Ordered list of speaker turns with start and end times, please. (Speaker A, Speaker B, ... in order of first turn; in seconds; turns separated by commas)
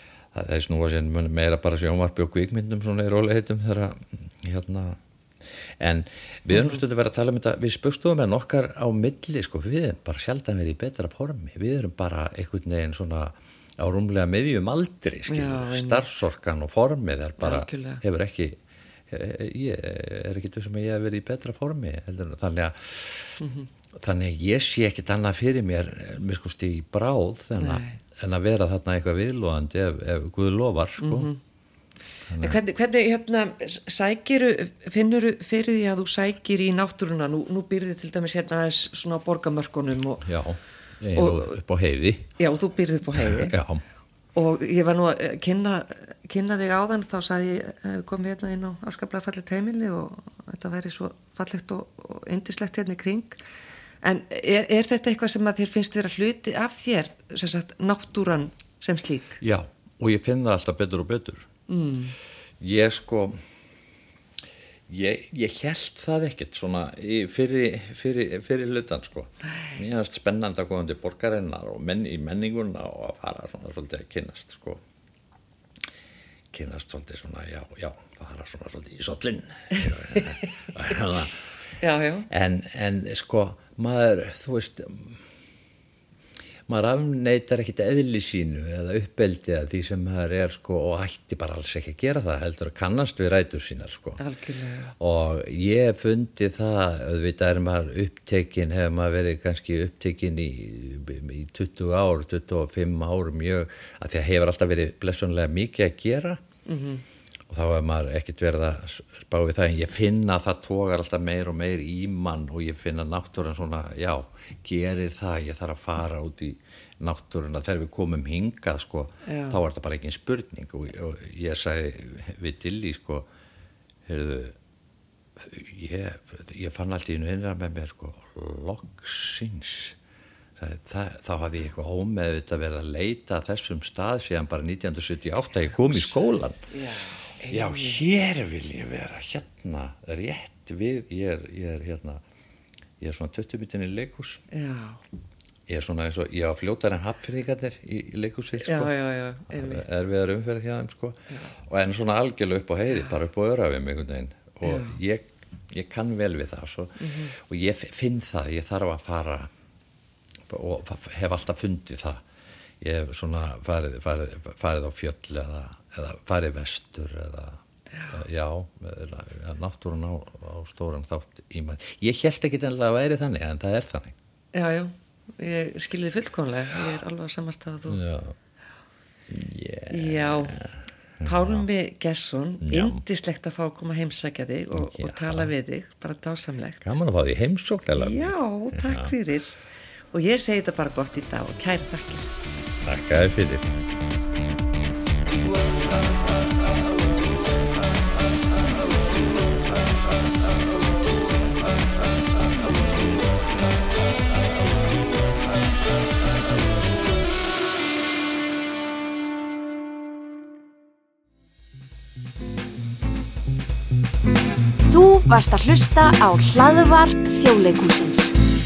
Speaker A: 0.3-18.6, Speaker B: 6.5-6.8, Speaker B: 15.3-16.3, Speaker B: 17.4-18.0, Speaker A: 19.1-23.4, Speaker B: 23.4-23.7, Speaker A: 23.9-31.3, Speaker B: 27.6-28.0, Speaker B: 31.0-31.4, Speaker A: 32.3-32.6, Speaker B: 32.4-40.3, Speaker A: 40.2-42.3, Speaker B: 41.1-41.6, Speaker B: 42.4-43.6, Speaker A: 43.1-43.8, Speaker B: 44.4-53.4, Speaker B: 54.0-59.4, Speaker A: 59.4-61.5, Speaker B: 61.7-62.1, Speaker A: 62.6-63.4, Speaker A: 64.9-74.8, Speaker A: 76.5-81.4, Speaker B: 81.8-82.3, Speaker A: 82.3-85.2, Speaker A: 86.7-94.2, Speaker B: 94.2-94.9, Speaker A: 95.0-106.4, Speaker B: 106.7-107.0, Speaker A: 107.5-123.3, Speaker B: 119.3-119.6, Speaker A: 124.0-124.6, Speaker A: 125.4-130.0, Speaker A: 130.6-136.6, Speaker B: 136.7-138.0, Speaker A: 137.4-142.2, Speaker A: 143.0-144.4, Speaker B: 144.5-145.0, Speaker A: 145.7-148.9, Speaker B: 148.6-149.8, Speaker A: 149.5-159.5, Speaker B: 154.6-155.0, Speaker B: 157.0-157.3, Speaker A: 160.5-162.2, Speaker A: 162.8-167.6, Speaker A: 168.1-174.2, Speaker B: 174.5-178.0, Speaker A: 177.9-178.4, Speaker A: 179.3-181.7, Speaker B: 179.9-180.6, Speaker B: 181.2-186.9, Speaker A: 182.6-183.0, Speaker A: 184.7-185.5, Speaker A: 186.8-189.2, Speaker B: 188.0-189.6, Speaker B: 190.1-192.3, Speaker A: 192.8-193.7, Speaker C: 214.9-218.3